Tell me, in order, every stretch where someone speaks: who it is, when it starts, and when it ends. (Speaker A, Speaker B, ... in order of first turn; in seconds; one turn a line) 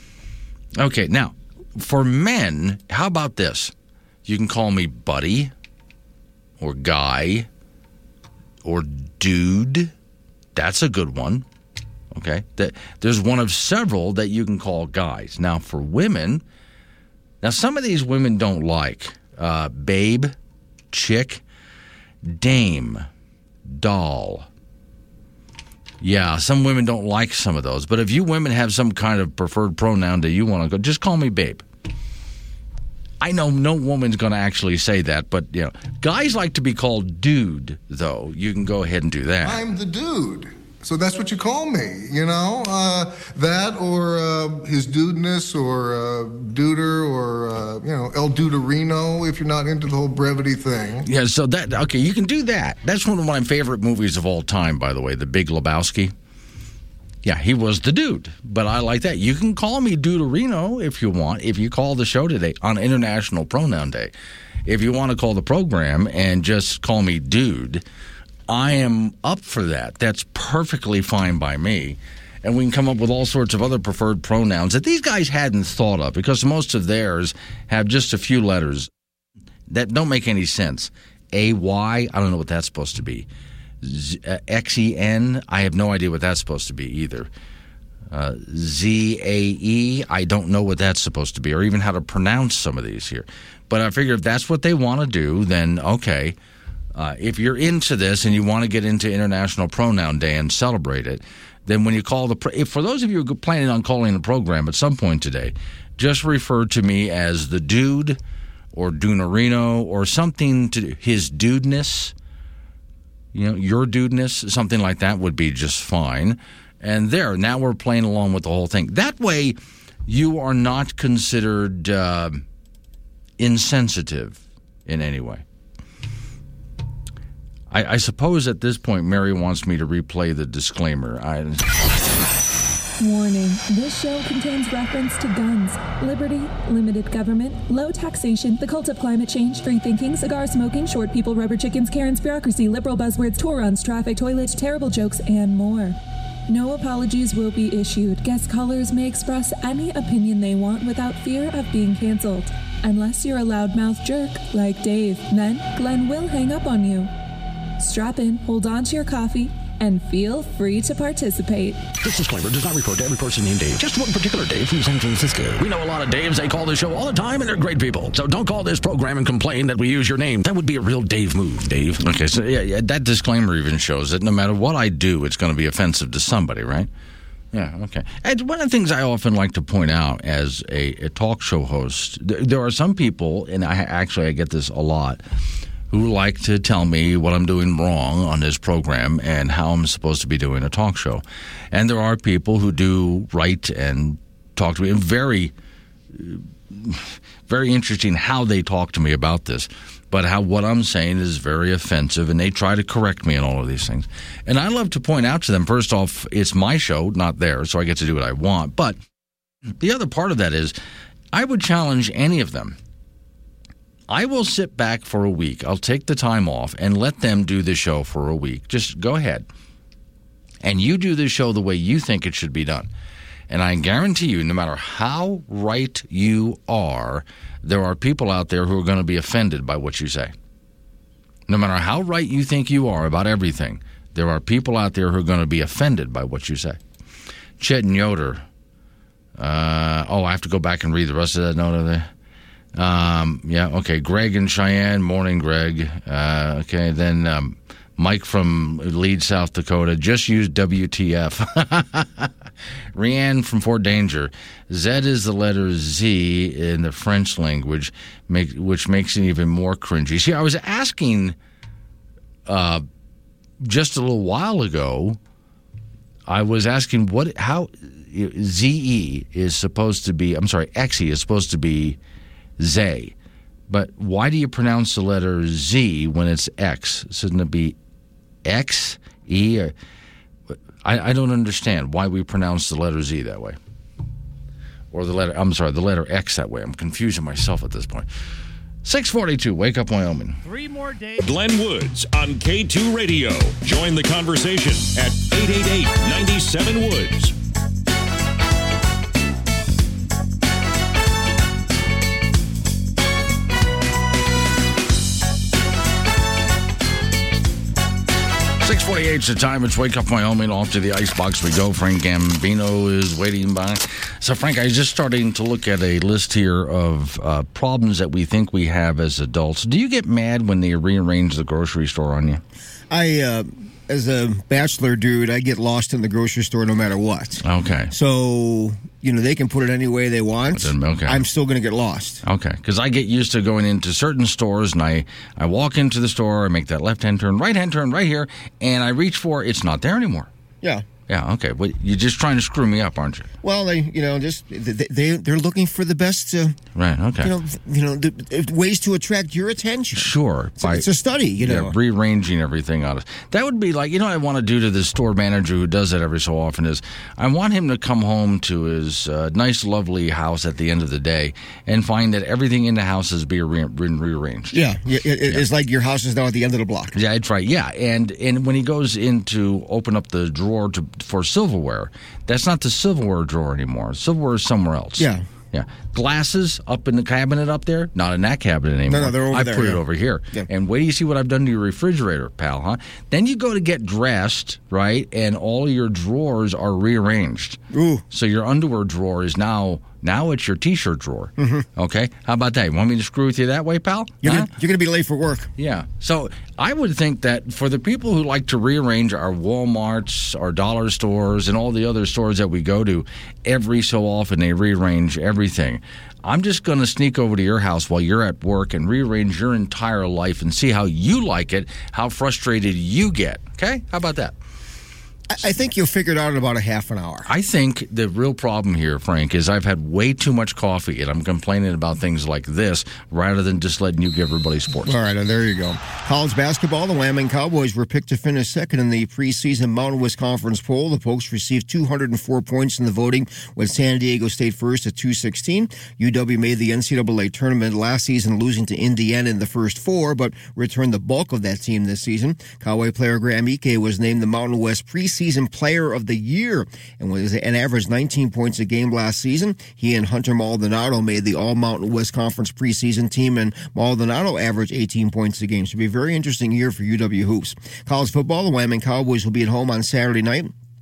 Speaker A: 0.8-3.7
Speaker A: 4.2-5.5
Speaker A: 6.6-7.5
Speaker A: 8.6-9.9
Speaker A: 10.5-11.4
Speaker A: 12.1-16.4
Speaker A: 17.4-20.3
Speaker A: 20.9-21.4
Speaker A: 22.2-23.0
Speaker A: 23.7-24.5
Speaker A: 26.0-31.6
Speaker A: 33.2-39.6
Speaker B: 39.4-51.0
Speaker A: 51.0-56.1
Speaker A: 57.2-64.1
Speaker A: 64.7-67.8
Speaker A: 68.5-78.9
Speaker A: 79.7-83.3
Speaker A: 83.8-87.3
Speaker A: 88.1-96.3
Speaker A: 96.9-108.2
Speaker A: 108.7-112.1
Speaker A: 113.3-119.5
Speaker A: 120.1-122.4
Speaker A: 123.4-125.4
Speaker A: 127.7-131.7
Speaker C: 133.0-157.1
Speaker C: 157.8-161.9
Speaker A: 162.0-176.9
Speaker A: 177.5-185.2
Speaker A: 185.9-195.5
Speaker A: 196.1-209.0
Speaker A: 209.8-210.7
Speaker A: 211.3-212.8
Speaker A: 214.1-219.4
Speaker A: 220.6-222.9
Speaker A: 223.5-230.3
Speaker A: 231.5-236.8
Speaker A: 237.6-238.4
Speaker A: 239.4-242.1
Speaker A: 242.7-252.3
Speaker A: 252.9-261.3
Speaker A: 262.4-262.8
Speaker A: 263.6-265.2
Speaker A: 266.3-272.0
Speaker A: 272.6-273.1
Speaker A: 273.7-277.7
Speaker A: 278.4-279.7
Speaker A: 280.8-283.6
Speaker A: 284.9-288.1
Speaker A: 288.8-290.4
Speaker D: 291.1-297.3
Speaker A: 308.6-322.4
Speaker E: 322.9-332.2
Speaker A: 327.4-327.9
Speaker A: 330.5-331.2
Speaker A: 332.2-340.3
Speaker A: 341.1-343.3
Speaker E: 343.4-346.6
Speaker A: 346.7-347.3
Speaker E: 347.2-351.7
Speaker A: 349.9-364.6
Speaker E: 364.5-366.9
Speaker A: 366.9-387.6
Speaker E: 375.0-375.2
Speaker E: 378.9-379.8
Speaker E: 387.7-388.0
Speaker A: 388.1-394.5
Speaker E: 391.4-391.6
Speaker E: 394.2-395.5
Speaker A: 395.6-414.3
Speaker E: 415.3-417.3
Speaker A: 417.2-424.9
Speaker E: 424.8-460.5